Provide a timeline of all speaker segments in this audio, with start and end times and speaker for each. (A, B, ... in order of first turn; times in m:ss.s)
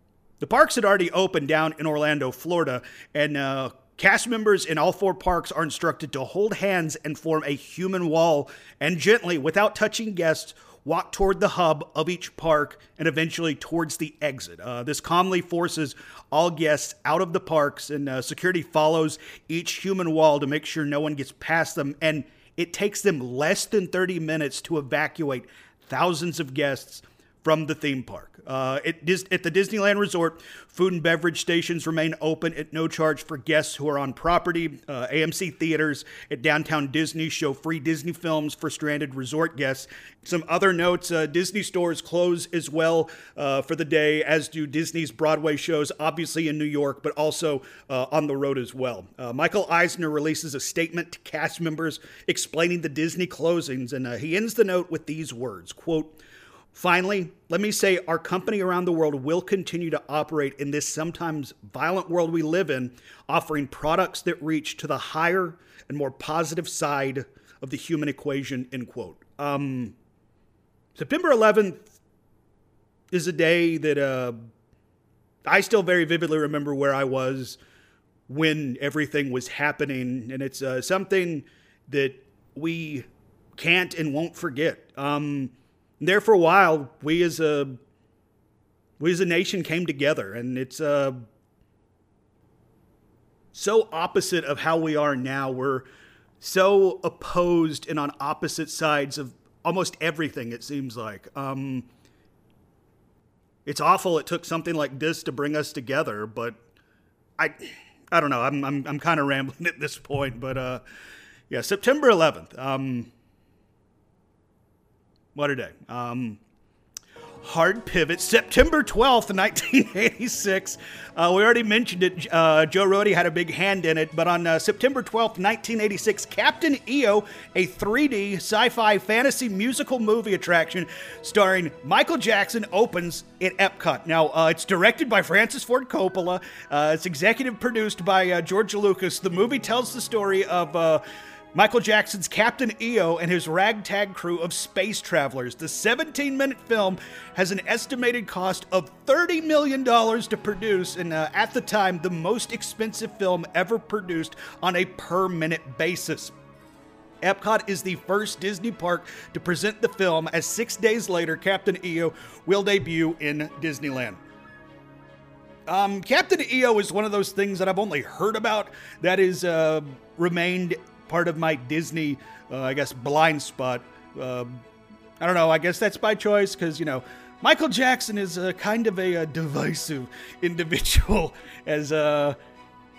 0:00.4-0:56.2 A
0:56.7-1:09.9 A
1:11.0-1:11.8 A
1:13.1-1:14.4 A
1:15.5-1:17.6 A
1:18.3-1:27.8 A
1:29.0-1:31.2 A
1:33.5-1:35.9 A
1:36.4-1:41.9 A
1:43.6-1:46.6 A
1:47.4-1:50.8 A
1:51.5-1:53.1 A
1:55.3-1:56.4 A
1:57.4-2:21.0 A
2:21.5-2:36.3 A
2:37.2-2:44.2 A
2:45.7-2:54.6 A
2:55.2-3:02.4 A